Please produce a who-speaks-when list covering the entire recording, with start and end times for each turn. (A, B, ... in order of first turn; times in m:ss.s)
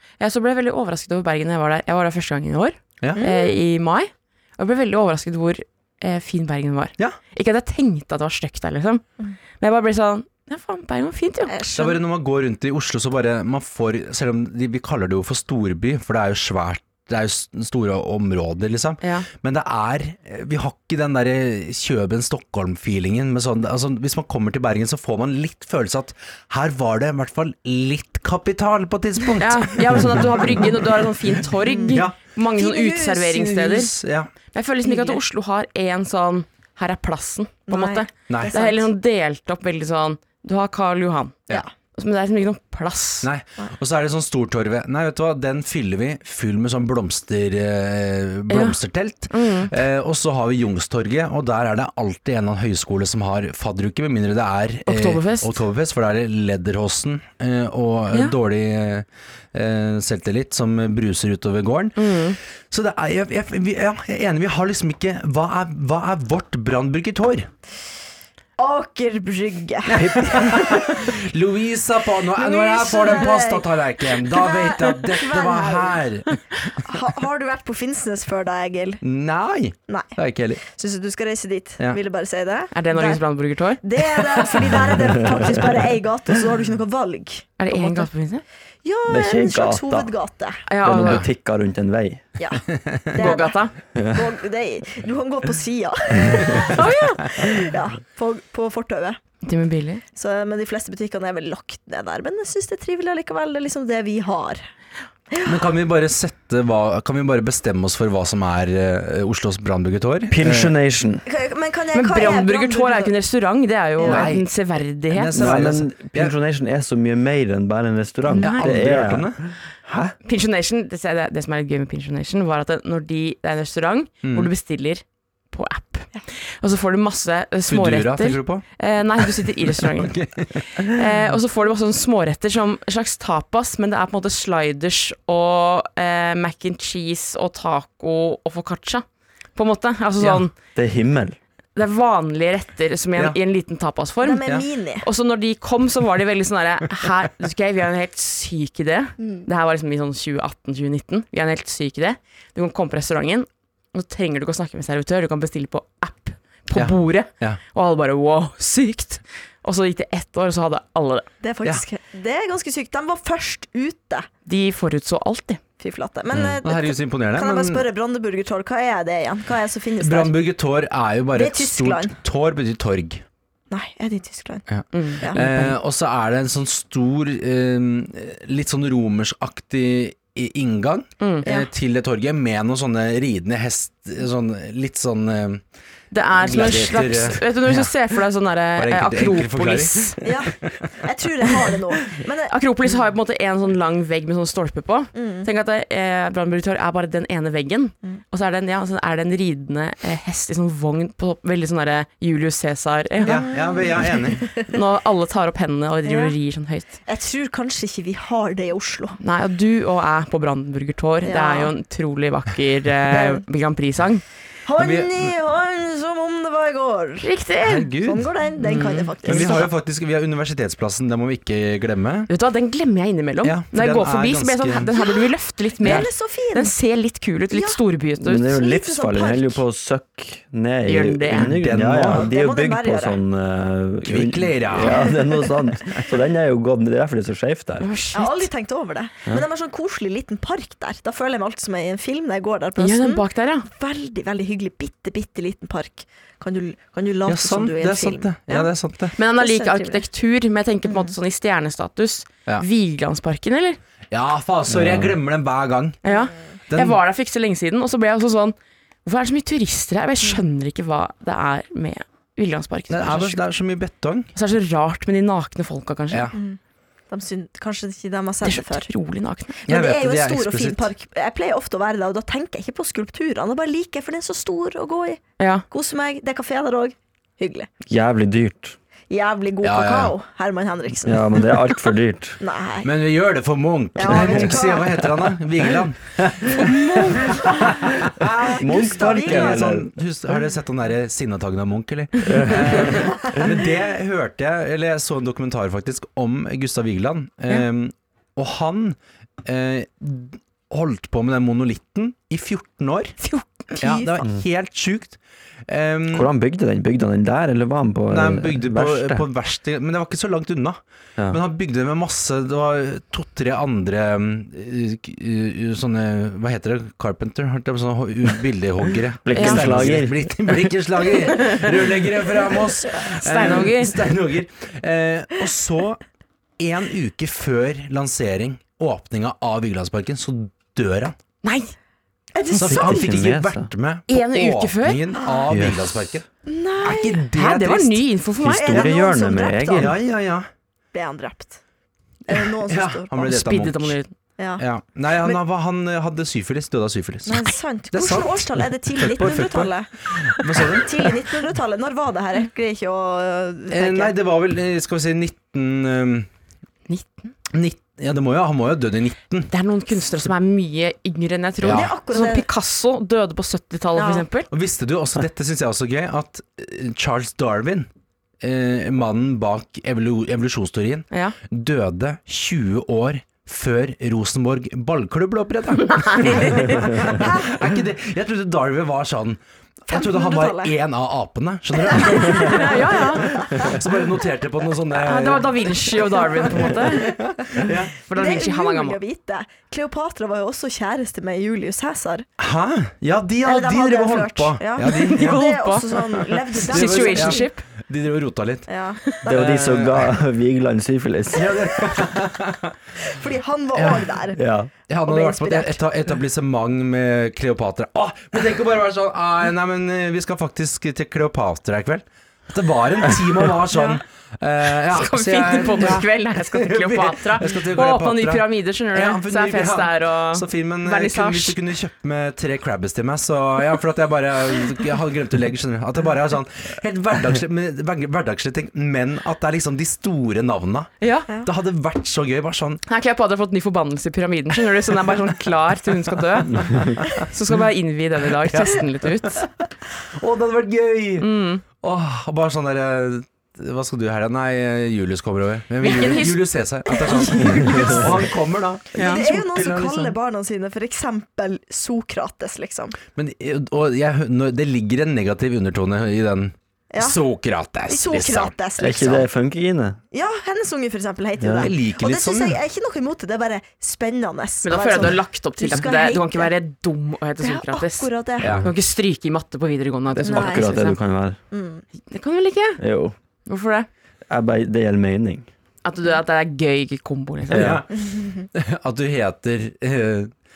0:00.2-0:09.0 A
0:03.1-0:03.6 B
0:09.6-0:11.7 A
0:11.5-0:12.0 B
0:11.8-0:30.9 C
0:19.0-0:19.3 A
0:29.4-0:33.9 A
0:31.6-0:32.0 B
0:31.9-0:32.2 C
0:32.6-0:33.1 B
0:33.3-0:34.3 C
0:34.5-0:41.4 A
0:34.8-0:35.2 B
0:37.7-0:38.9 B
0:38.3-0:38.5 C
0:41.9-0:43.3 A
0:43.2-1:02.2 C
0:48.5-0:48.8 A
0:49.3-0:49.7 A
0:54.8-0:55.6 A
1:02.0-1:02.4 A
1:02.7-1:07.5 C
1:08.6-1:11.1 B
1:09.9-1:16.4 C
1:12.3-1:16.0 B
1:16.8-1:19.0 B
1:19.0-1:20.6 C
1:20.6-1:23.2 B
1:22.7-1:23.8 A
1:23.8-1:28.1 B
1:24.2-1:25.0 C
1:27.6-1:28.4 A
1:28.8-1:30.6 B
1:29.1-1:30.1 D
1:30.7-1:31.2 A
1:30.8-1:32.2 D
1:32.4-1:39.2 B
1:33.2-1:33.7 A
1:34.0-1:34.2 D
1:36.7-1:37.4 A
1:39.4-1:40.0 A
1:40.1-1:44.6 B
1:45.3-1:45.6 B
1:45.4-1:50.8 C
1:50.3-1:51.2 D
1:51.2-1:53.1 B
1:51.9-1:55.5 A
1:54.0-1:54.3 B
1:54.0-1:54.4 C
1:55.1-1:56.3 C
1:55.3-2:00.1 D
1:58.3-1:58.7 A
1:58.4-1:59.4 C
2:00.2-2:10.2 A
2:04.2-2:04.5 C
2:07.7-2:08.6 C
2:10.0-2:11.0 C
2:10.8-2:19.0 A
2:19.5-2:20.5 A
2:20.7-2:21.4 D
2:21.8-2:24.4 A
2:24.2-2:25.0 B
2:25.0-2:41.3 A
2:29.2-2:29.5 B
2:36.7-2:37.6 C
2:41.4-2:44.3 B
2:44.4-2:45.6 A
2:45.8-2:50.3 B
2:46.3-2:47.9 C
2:50.0-2:53.2 C
2:51.3-2:52.1 B
2:53.7-2:54.6 B
2:54.7-3:05.6 C
2:54.9-2:55.8 A
3:01.2-3:01.5 A
3:06.1-3:10.2 A
3:06.4-3:07.9 C
3:08.8-3:10.2 C
3:10.2-3:12.5 B
3:12.5-3:23.5 A
3:15.1-3:15.5 B
3:23.2-3:24.8 B
3:23.2-3:24.5 C
3:24.7-3:26.9 A
3:26.0-3:26.4 B
3:27.0-3:29.2 B
3:29.2-3:34.2 A
3:31.2-3:31.7 B
3:33.1-3:33.4 B
3:34.6-3:37.3 B
3:34.8-3:35.3 C
3:37.2-3:37.9 A
3:37.6-3:38.3 C
3:38.0-3:39.7 B
3:38.6-3:39.6 A
3:39.2-3:42.3 C
3:42.3-3:48.6 A
3:43.4-3:44.9 C
3:44.9-3:46.7 B
3:47.5-3:47.8 B
3:48.2-3:57.9 D
3:48.4-3:49.6 B
3:50.8-3:51.5 A
3:51.3-3:52.3 C
3:52.1-3:53.2 B
3:54.0-3:55.1 C
3:54.8-3:55.5 B
3:57.8-3:58.5 A
3:58.1-4:08.7 B
4:02.8-4:03.7 A
4:07.2-4:09.1 C
4:09.2-4:13.8 A
4:09.4-4:10.0 B
4:10.8-4:11.1 B
4:14.1-4:16.0 C
4:14.7-4:15.2 D
4:16.0-4:16.5 B
4:16.0-4:23.4 A
4:16.7-4:17.0 C
4:22.9-4:24.3 C
4:24.3-4:26.3 A
4:26.3-4:26.6 B
4:27.1-4:28.9 B
4:28.4-4:29.5 A
4:29.6-4:37.7 B
4:29.7-4:30.9 C
4:35.4-4:35.6 A
4:37.9-4:38.8 D
4:39.1-4:41.6 B
4:39.6-4:40.1 C
4:41.0-4:42.4 D
4:42.4-4:42.9 B
4:42.8-5:03.2 C
4:44.0-4:45.1 B
4:44.0-4:44.6 D
4:46.6-4:47.3 A
4:46.7-4:47.6 B
4:48.3-4:49.7 B
4:48.6-4:49.9 D
4:52.2-4:53.4 D
4:52.8-4:53.5 B
5:03.2-5:04.1 A
5:03.8-5:06.3 C
5:06.1-5:09.2 D
5:08.1-5:26.0 C
5:19.2-5:20.7 D
5:19.3-5:19.7 A
5:23.2-5:24.0 A
5:26.6-5:31.1 C
5:31.4-5:31.7 A
5:32.3-5:33.1 B
5:32.5-5:33.7 D
5:32.6-5:36.2 C
5:34.1-5:35.0 A
5:35.2-5:35.5 B
5:35.5-5:36.1 D
5:36.4-5:37.2 B
5:36.8-5:38.0 C
5:37.3-5:38.9 A
5:38.4-5:39.9 D
5:38.4-5:40.0 B
5:39.8-5:40.5 C
5:40.9-5:41.6 B
5:42.3-5:43.3 B
5:42.3-5:44.0 C
5:43.2-5:44.1 A
5:44.4-5:44.6 B
5:44.6-5:51.1 C
5:47.2-5:54.1 B
5:53.7-5:56.3 C
5:56.9-5:57.3 A
5:57.5-5:59.5 C
5:59.5-6:04.5 A
6:01.6-6:01.9 C
6:01.6-6:02.5 B
6:04.0-6:04.2 B
6:04.5-6:07.9 C
6:08.4-6:25.5 C
6:11.1-6:11.4 A
6:15.9-6:16.8 A
6:16.4-6:17.5 B
6:19.9-6:20.7 B
6:21.7-6:23.8 B
6:22.4-6:23.4 A
6:25.0-6:27.1 A
6:25.9-6:32.2 B
6:26.5-6:27.9 C
6:28.1-6:29.0 A
6:32.4-6:35.4 C
6:33.4-6:37.5 B
6:34.8-6:35.9 A
6:35.9-6:38.7 C
6:36.7-6:37.6 A
6:38.7-6:39.5 B
6:39.3-6:40.2 C
6:39.3-6:41.6 D
6:41.3-6:42.7 C
6:43.0-6:44.4 B
6:43.7-6:44.1 C
6:44.4-6:44.7 D
6:44.9-7:10.9 C
6:45.1-6:45.8 B
6:53.7-6:54.0 B
6:54.9-7:01.6 A
7:11.0-7:11.3 A
7:11.4-7:12.8 C
7:12.9-7:19.4 A
7:18.5-7:19.3 C
7:20.2-7:21.3 C
7:21.2-7:21.6 A
7:21.8-7:30.1 C
7:25.8-7:26.4 A
7:26.9-7:28.3 B
7:28.9-7:33.0 B
7:33.1-7:38.5 C
7:36.9-7:37.2 B
7:37.9-7:39.3 B
7:38.8-7:40.0 D
7:40.1-7:46.5 B
7:41.4-7:41.7 D
7:41.6-7:42.6 C
7:44.6-7:48.1 A
7:47.4-7:48.7 B
7:48.4-7:48.6 C
7:48.6-7:51.0 A
7:50.2-7:51.4 D
7:50.2-7:50.8 B
7:51.5-7:51.8 B
7:52.1-7:52.8 A
7:52.8-7:53.1 D
7:53.5-7:53.9 A
7:54.3-7:55.5 D
7:55.8-7:57.7 A
7:57.5-7:57.8 D
7:57.5-7:57.9 C
7:58.1-7:58.4 B
7:58.5-8:00.3 C